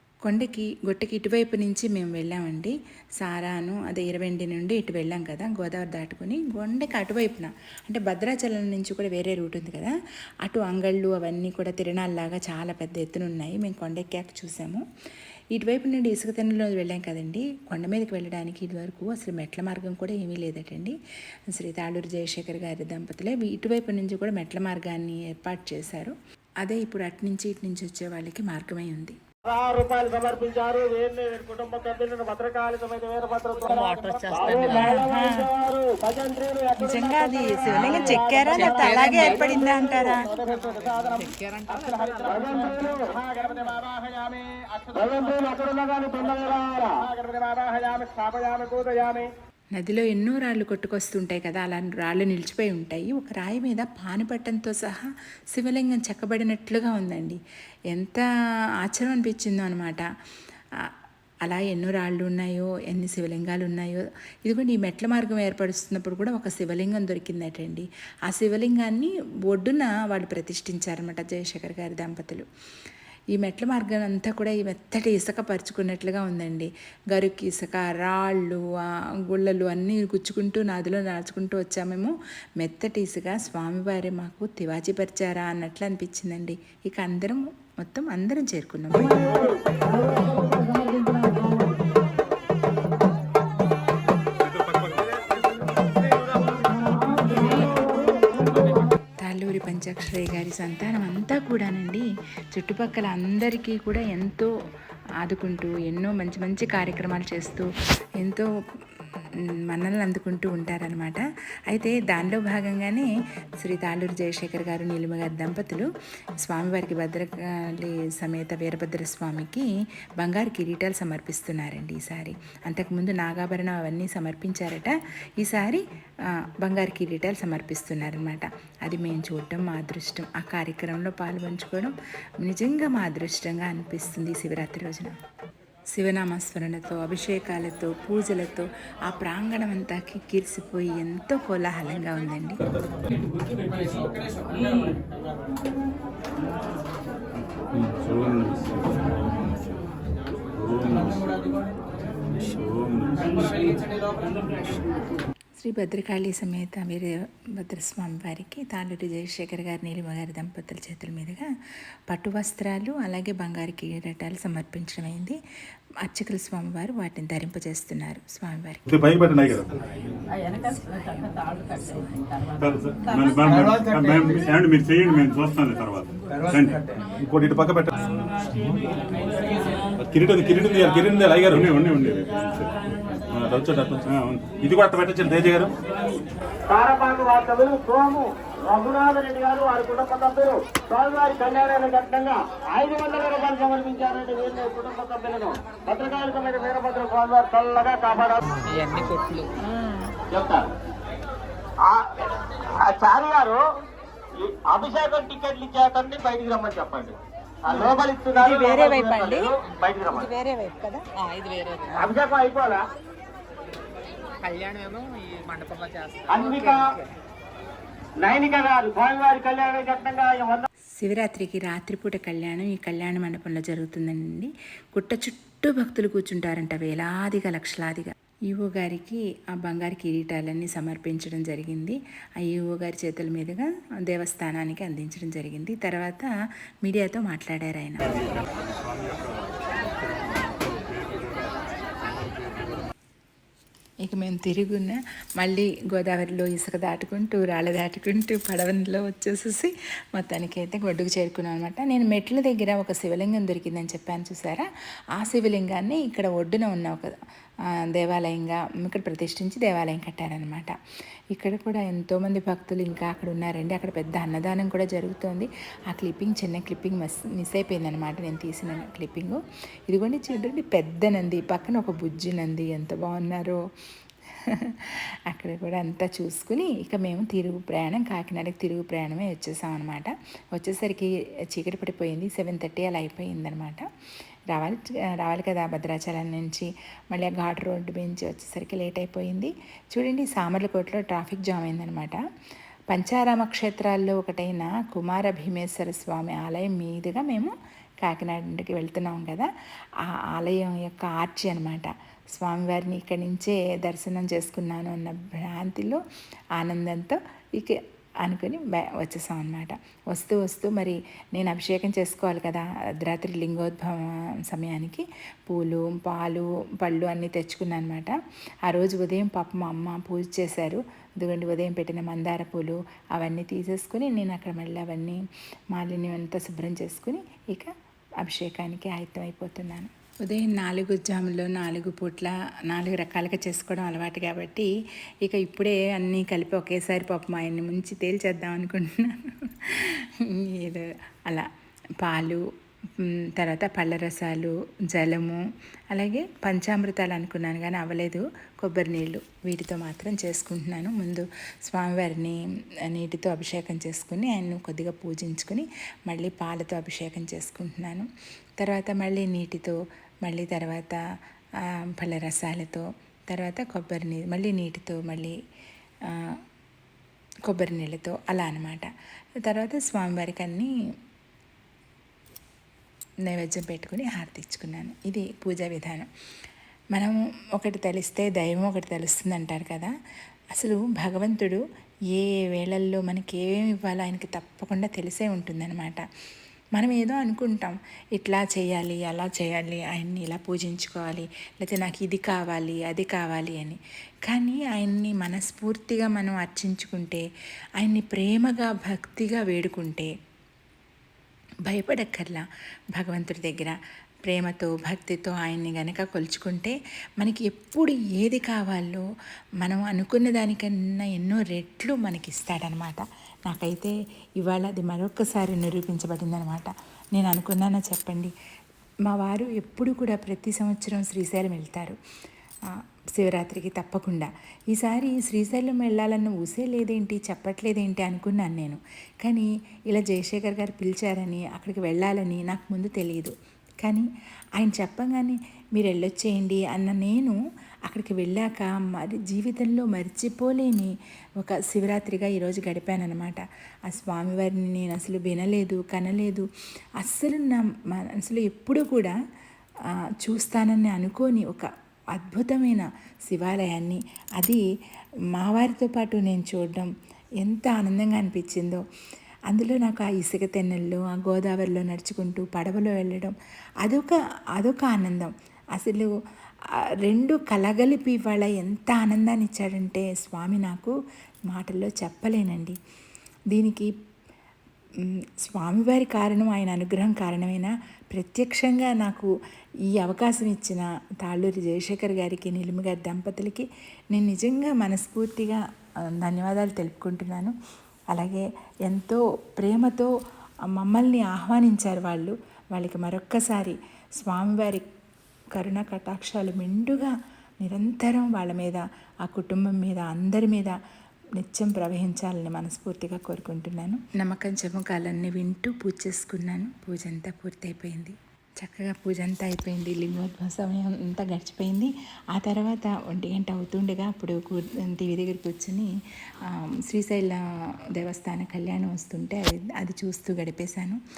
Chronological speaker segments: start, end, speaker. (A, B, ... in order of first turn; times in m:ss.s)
0:00.2-0:14.8 A
0:15.5-0:21.0 A
0:21.5-0:29.2 A
0:29.5-0:49.3 B
0:33.6-0:34.9 C
0:34.7-0:35.5 A
0:36.8-0:40.3 A
0:38.6-0:39.5 C
0:40.3-0:43.3 C
0:49.7-0:57.4 A
0:57.9-0:58.2 A
0:58.8-1:00.0 A
1:01.4-1:12.5 A
1:13.3-1:18.6 A
1:19.3-1:29.6 A
1:30.1-1:31.1 B
1:34.4-1:35.2 D
1:37.2-1:38.7 B
1:39.2-1:44.5 A
1:45.2-1:49.0 A
1:49.7-1:53.1 A
1:53.6-1:55.9 A
1:56.4-2:05.8 A
2:06.4-2:15.2 A
2:15.9-2:22.6 A
2:27.7-2:29.8 D
2:30.5-2:31.7 D
2:32.4-2:34.7 D
2:35.6-2:41.5 A
2:42.1-2:45.4 A
2:46.0-2:48.8 A
2:48.8-2:49.8 D
2:50.3-2:52.2 C
2:52.6-2:58.2 D
3:00.0-3:05.8 D
3:06.7-3:18.5 B
3:18.6-3:19.5 C
3:20.3-3:20.7 B
3:21.8-3:23.6 B
3:24.4-3:30.3 B
3:28.4-3:29.0 A
3:29.8-3:32.1 C
3:31.9-3:32.8 B
3:34.4-3:37.1 C
3:36.3-3:36.9 B
3:38.2-3:40.7 B
3:41.0-3:56.3 A
3:56.8-3:58.2 A
3:58.0-4:02.9 D
4:04.0-4:17.1 A
4:17.9-4:20.7 A
4:21.3-4:33.6 A
4:34.4-4:43.8 A
4:44.5-4:52.2 A
4:52.9-4:59.5 A
5:00.3-5:06.0 A
5:06.6-5:18.1 A
5:18.7-5:25.2 A
5:25.7-5:34.7 A
5:35.2-5:41.5 A
5:42.0-5:42.4 A
5:43.0-5:45.4 A
5:45.9-6:01.0 A
6:01.7-6:05.4 A
6:06.1-6:06.3 A
6:07.5-6:08.9 A
6:09.4-6:10.7 A
6:13.3-6:16.1 A
6:16.9-6:19.9 A
6:20.5-6:21.6 A
6:22.1-6:26.0 A
6:26.7-6:37.2 A
6:37.8-6:40.1 A
6:41.7-6:42.4 A
6:43.0-6:43.8 A
6:44.3-6:49.1 A
6:49.6-6:58.3 A
6:59.1-7:02.0 A
7:03.1-7:14.1 A
7:14.6-7:26.5 A
7:27.0-7:29.2 A
7:30.2-7:34.6 A
7:35.3-7:38.8 A
7:39.5-7:46.1 A
7:47.0-7:50.9 A
7:51.5-7:52.8 A
7:53.5-7:53.9 A
7:55.0-7:59.3 A
7:59.9-8:05.6 A
8:06.2-8:07.5 A
8:08.1-8:10.1 A
8:10.7-8:14.9 A
8:15.5-8:20.7 A
8:21.4-8:35.9 A
8:36.5-8:37.4 A
8:37.9-8:41.0 A